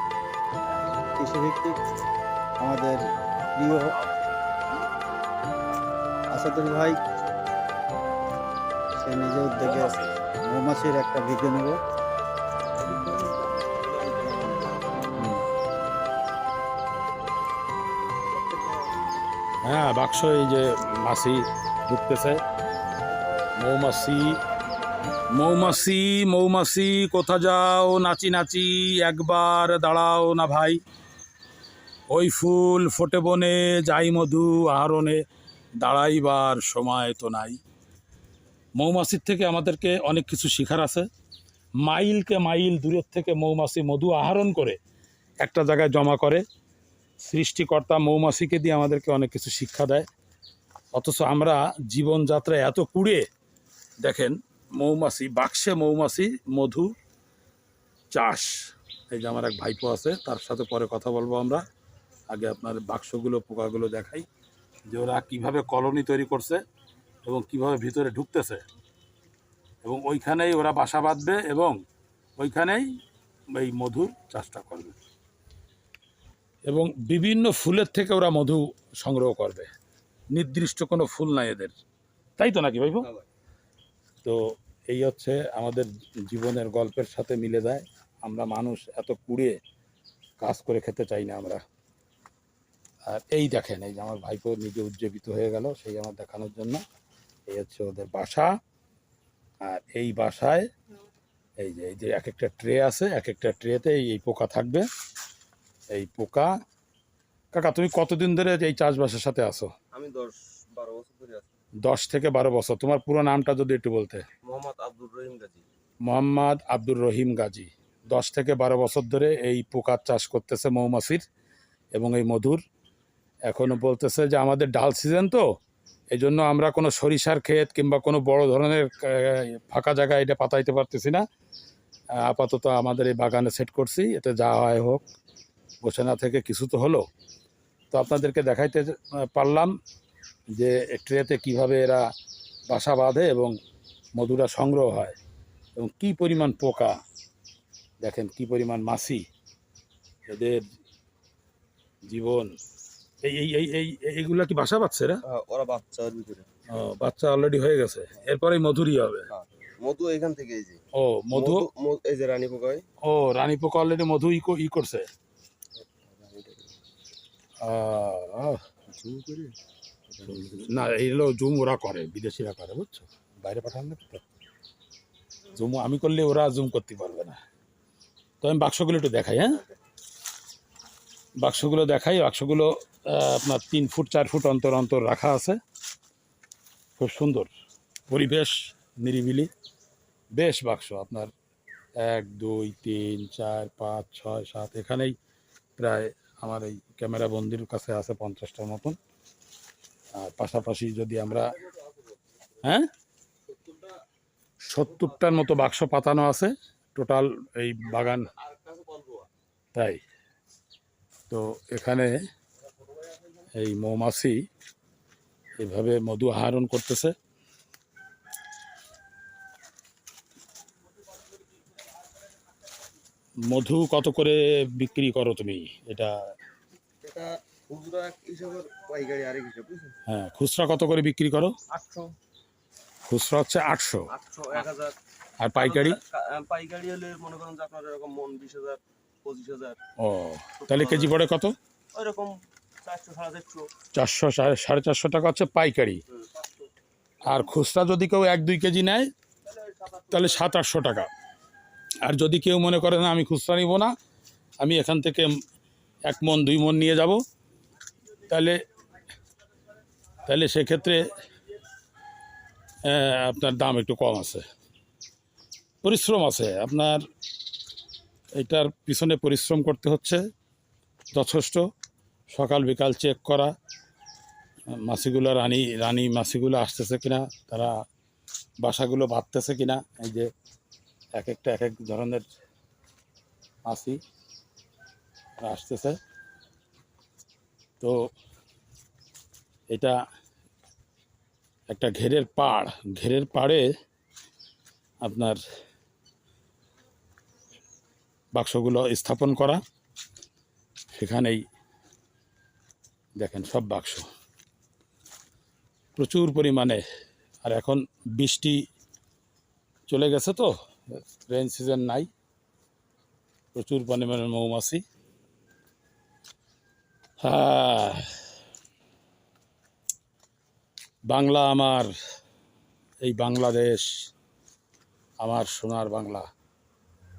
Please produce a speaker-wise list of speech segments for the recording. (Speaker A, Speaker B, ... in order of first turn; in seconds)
Speaker A: 1.2-1.8, 2.6-3.0, 3.6-3.9, 6.3-7.0, 9.0-11.8
Speaker B: 12.8-14.9, 18.3-18.9, 109.9-111.5, 114.4-115.6, 155.3-156.4, 159.3-160.8, 161.3-162.8, 165.8-166.7, 168.9-169.5, 170.1-170.6, 201.3-202.1, 203.5-203.9, 208.0-209.3, 227.0-229.9, 231.7-232.1, 234.1-234.9, 235.6-239.8, 240.6-241.2, 241.9-243.7, 249.5-250.4
Speaker C: 15.2-15.4, 19.6-22.4, 23.6-24.4, 25.3-30.8, 32.1-35.2, 35.8-37.6, 38.8-41.0, 41.8-44.8, 45.4-46.4, 47.2-50.1, 50.9-53.2, 54.0-56.9, 58.1-58.6, 59.1-61.6, 62.3-64.2, 64.9-66.6, 67.2-68.6, 69.8-71.8, 72.4-72.8, 73.5-74.9, 76.7-79.7, 80.3-81.7, 82.4-83.1, 84.2-89.6, 90.4-91.6, 93.1-96.8, 97.5-98.5, 99.6-100.7, 101.6-104.8, 105.9-106.5, 107.5-109.7, 111.8-114.2, 116.0-121.2, 121.9-122.6, 123.5-125.4, 126.1-131.2, 132.2-135.0, 135.8-137.0, 137.9-139.7, 140.6-142.0, 142.7-143.5, 144.2-145.2, 145.8-146.9, 148.0-149.2, 150.3-150.6, 152.1-152.5, 153.2-155.2, 156.7-159.3, 160.9-161.7, 163.0-165.1, 167.6-168.6, 170.3-174.2, 175.5-177.4, 178.4-179.6, 181.4-185.6, 187.0-187.5, 188.1-189.5, 190.3-191.3, 192.0-195.1, 195.8-199.0, 200.1-201.6, 202.6-202.9, 204.6-208.3, 209.7-210.0, 211.3-212.1, 213.5-214.4, 215.6-217.1, 223.5-226.1, 230.1-231.5, 233.1-234.1, 235.4-236.0, 240.0-241.5, 243.9-246.0, 247.2-249.1, 250.1-251.1, 252.0-253.9, 254.6-255.3, 256.1-257.2, 258.3-258.6, 260.2-261.1, 262.9-264.4, 265.8-267.0, 268.4-270.2, 271.1-271.6, 272.3-273.5, 274.8-277.7, 278.6-280.3, 281.1-282.2, 283.6-284.0, 285.4-286.0, 291.7-293.6, 295.0-295.4, 298.3-299.6, 301.0-301.4, 303.2-304.1, 305.9-306.8, 307.4-308.6, 309.9-312.1, 313.5-314.8, 317.2-318.0, 321.1-321.9, 323.0-324.1, 325.2-326.2